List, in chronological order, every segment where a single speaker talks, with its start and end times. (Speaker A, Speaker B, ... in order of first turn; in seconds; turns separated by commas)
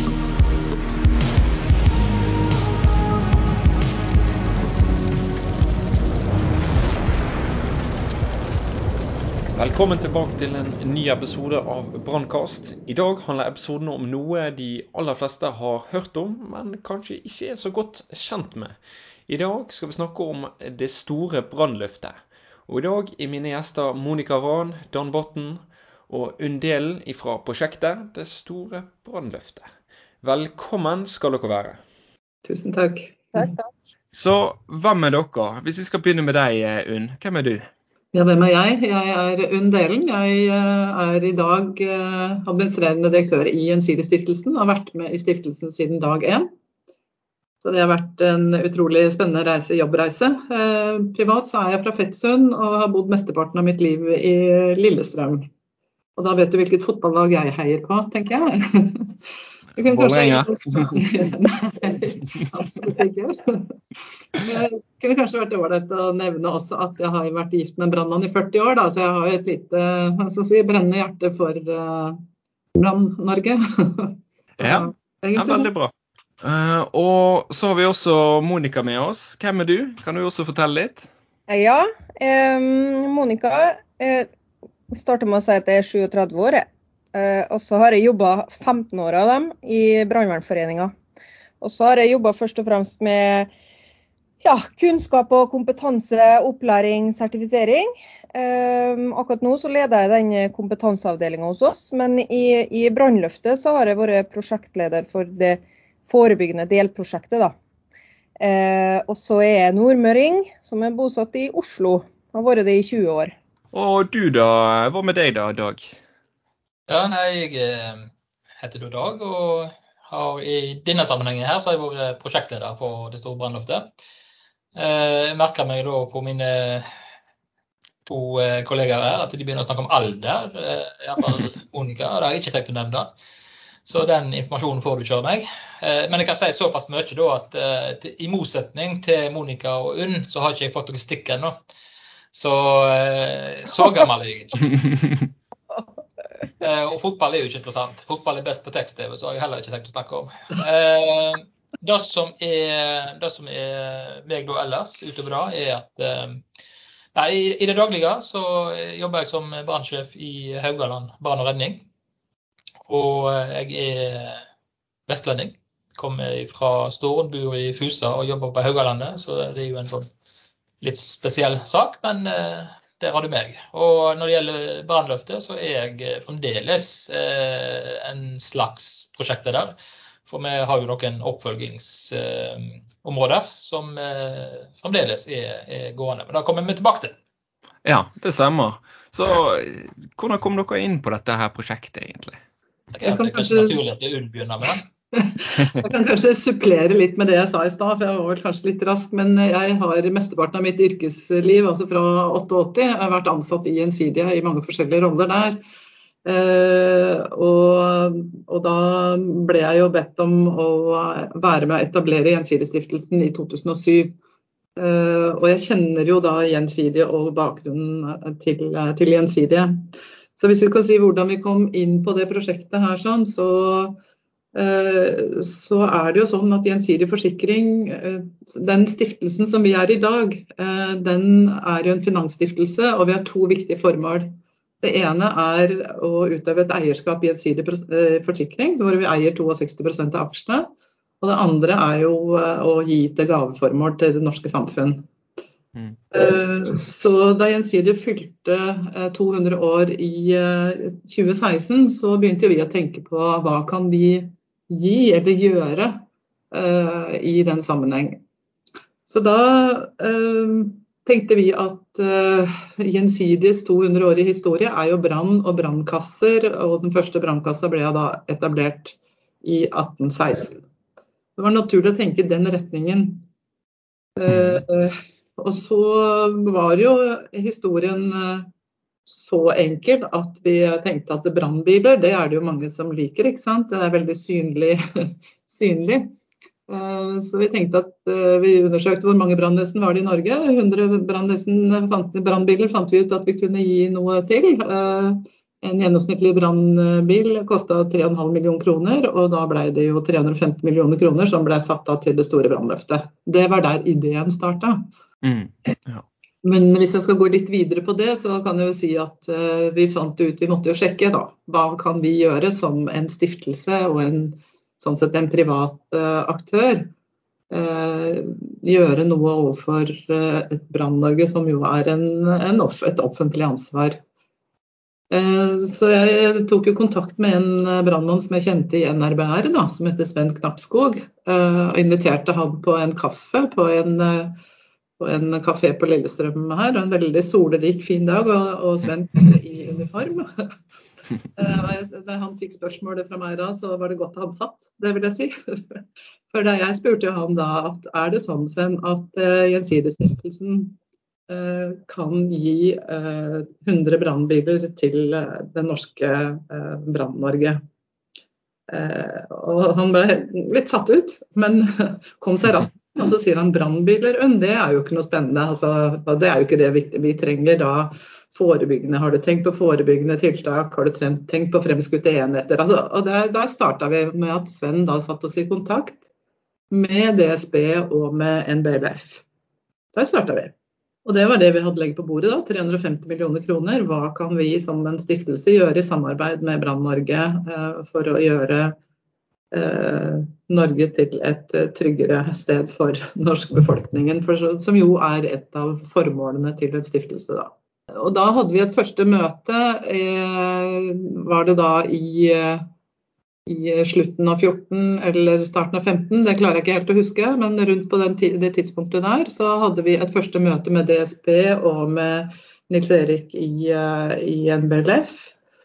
Speaker A: 9.6-18.8, Speaker A: 19.3-29.7, Speaker A: 30.2-31.8, Speaker B: 32.5-33.5, Speaker A: 34.1-37.7, Speaker B: 38.1-46.5, Speaker B: 47.6-55.5, Speaker B: 56.2-59.2, Speaker B: 59.8-63.8, Speaker A: 59.9-61.0, Speaker B: 64.3-72.2, Speaker B: 72.8-75.7, Speaker A: 74.6-81.1, Speaker C: 81.5-84.3, Speaker C: 84.9-90.9, Speaker C: 91.6-93.5, Speaker C: 94.4-107.5, Speaker C: 108.4-113.3, Speaker A: 113.7-115.9, Speaker D: 116.9-118.1, Speaker D: 118.6-123.9, Speaker D: 124.8-126.9, Speaker D: 128.1-133.1, Speaker D: 133.9-141.6, Speaker D: 142.3-145.2, Speaker D: 146.6-156.4, Speaker D: 157.2-161.9, Speaker D: 162.9-164.4, Speaker D: 165.1-170.1, Speaker D: 170.8-179.7, Speaker D: 180.3-187.2, Speaker A: 187.8-192.4, Speaker D: 192.9-194.8, Speaker B: 193.1-193.8, Speaker B: 195.1-205.6, Speaker B: 206.2-214.2, Speaker B: 214.8-224.0, Speaker B: 224.5-245.1, Speaker B: 246.1-258.2, Speaker B: 259.1-270.6, Speaker B: 271.4-273.3, Speaker B: 274.2-278.5, Speaker B: 279.1-286.1, Speaker B: 286.7-304.9, Speaker A: 305.2-306.1, Speaker B: 306.4-316.9, Speaker B: 317.5-324.0, Speaker B: 325.1-334.4, Speaker B: 335.0-340.5, Speaker B: 341.4-350.8, Speaker B: 351.3-357.6, Speaker B: 358.7-376.0, Speaker B: 376.7-379.2, Speaker B: 379.9-380.5, Speaker B: 381.1-388.8, Speaker B: 389.5-402.7, Speaker B: 403.5-415.3